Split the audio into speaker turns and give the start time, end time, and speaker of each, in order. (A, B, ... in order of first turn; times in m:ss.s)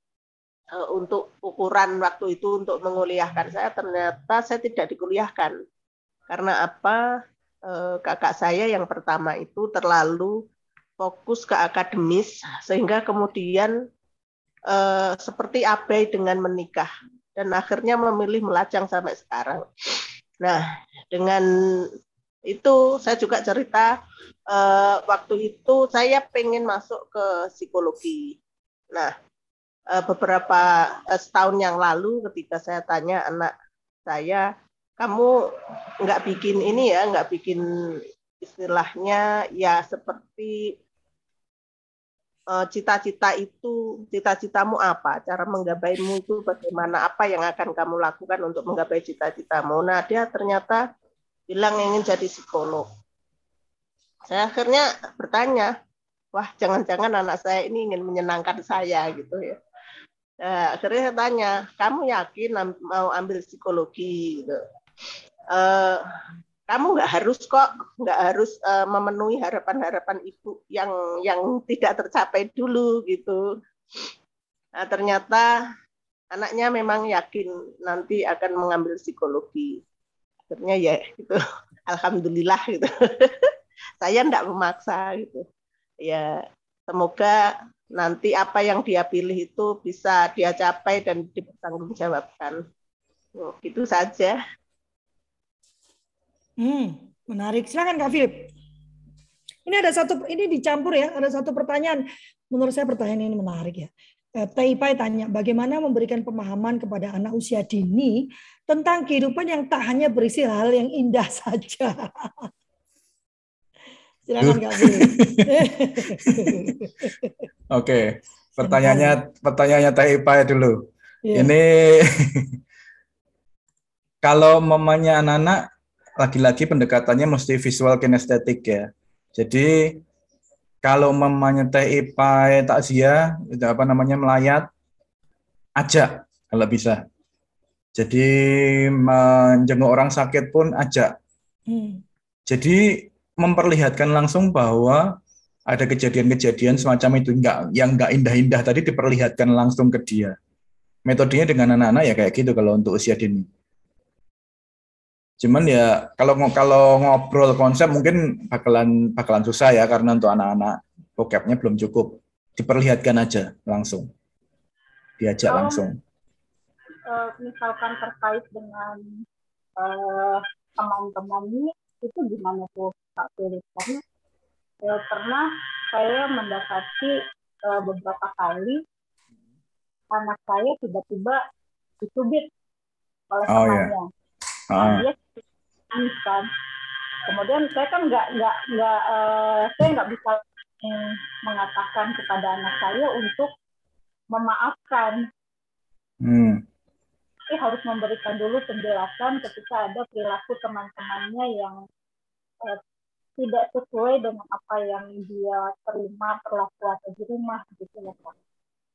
0:00.7-0:05.6 A
0:06.3-0:07.0 A
0:07.7-0:10.4 A
0:11.0-0:13.7 A
0:14.7-0:19.6 A
0:20.4-0:21.4 A
0:22.5-0:23.9 A
0:24.5-0:28.3 A
0:29.9-0:33.5 A
0:34.1-0:34.4 A
0:35.0-0:35.3 A
0:36.0-0:37.6 A
0:38.4-0:40.5 A
0:42.5-0:50.8 A
0:51.5-0:52.9 A
0:54.3-0:55.7 A
0:56.3-0:59.6 A
1:00.4-1:04.6 A
1:05.5-1:06.0 A
1:06.7-1:13.4 A
1:14.8-1:15.5 A
1:16.3-1:19.8 A
1:20.5-1:23.5 A
1:24.0-1:25.4 A
1:26.0-1:26.3 A
1:26.9-1:27.4 A
1:28.0-1:32.6 A
1:33.4-1:34.3 A
1:36.6-1:38.5 B
1:39.7-1:42.0 B
1:42.5-1:48.2 B
1:48.7-1:52.5 B
1:54.3-1:57.4 B
1:54.4-1:55.5 C
1:56.2-1:56.5 C
1:57.7-2:02.5 C
1:58.6-1:59.2 B
2:01.3-2:01.5 B
2:04.2-2:05.6 C
2:06.2-2:10.0 C
2:10.8-2:14.7 C
2:15.8-2:17.0 C
2:17.9-2:21.1 C
2:21.7-2:22.0 B
2:22.5-2:25.1 C
2:25.7-2:30.4 C
2:31.0-2:33.5 C
2:35.4-2:44.1 C
2:45.2-2:46.0 C
2:45.5-2:45.8 D
2:47.1-2:49.0 D
2:49.8-2:54.0 D
2:54.8-2:57.1 D
2:57.6-2:58.8 D
3:00.1-3:01.4 D
3:02.0-3:02.4 D
3:03.3-3:04.1 D
3:03.5-3:03.9 C
3:04.7-3:05.0 C
3:04.8-3:05.2 D
3:05.9-3:06.5 D
3:07.3-3:13.5 D
3:14.3-3:15.3 D
3:16.2-3:16.6 C
3:17.5-3:21.8 D
3:23.4-3:28.3 D